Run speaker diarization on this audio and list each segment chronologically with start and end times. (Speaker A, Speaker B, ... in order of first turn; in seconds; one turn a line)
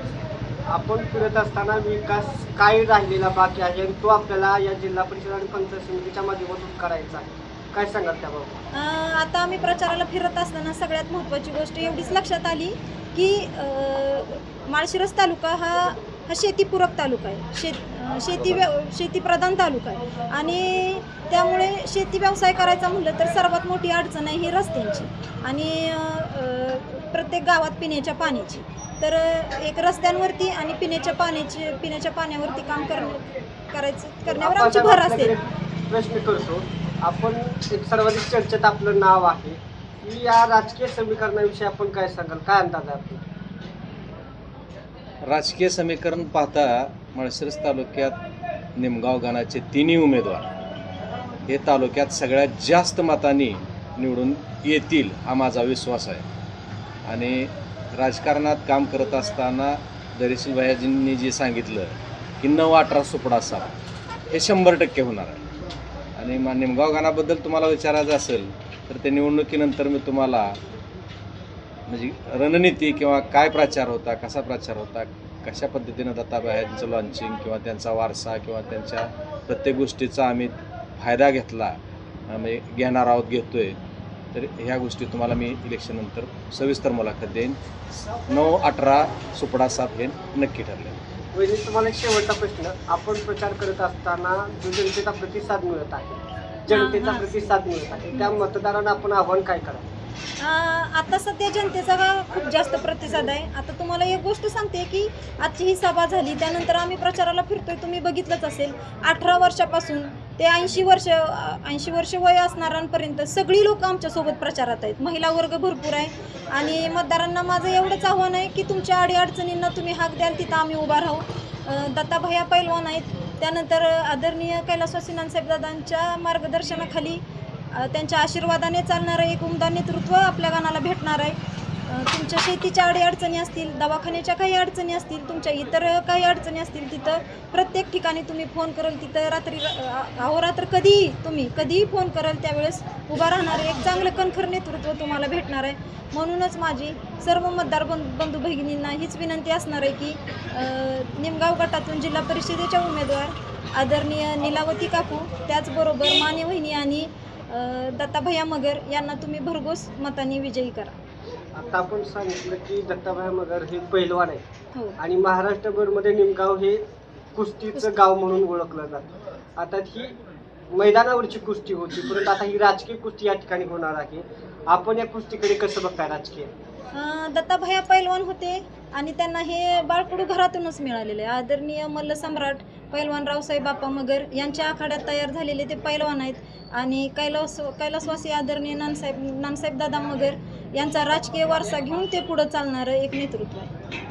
Speaker A: 0.7-8.6
Speaker B: 8.7-35.3
Speaker C: 18.4-18.7
Speaker A: 34.3-43.2
Speaker C: 45.2-48.2
Speaker C: 48.8-50.5
Speaker C: 51.5-56.2
Speaker C: 57.1-63.7
Speaker C: 64.3-65.4
Speaker C: 66.2-70.6
Speaker C: 71.9-81.8
Speaker C: 82.3-83.8
Speaker C: 84.3-87.6
Speaker C: 88.3-91.0
Speaker A: 91.3-99.8
Speaker B: 96.7-97.3
Speaker B: 100.4-127.2
Speaker B: 127.7-160.9
Speaker A: 161.5-164.4
Speaker A: 165.0-166.8
Speaker A: 167.3-170.1
Speaker A: 170.7-176.5
Speaker B: 176.9-193.7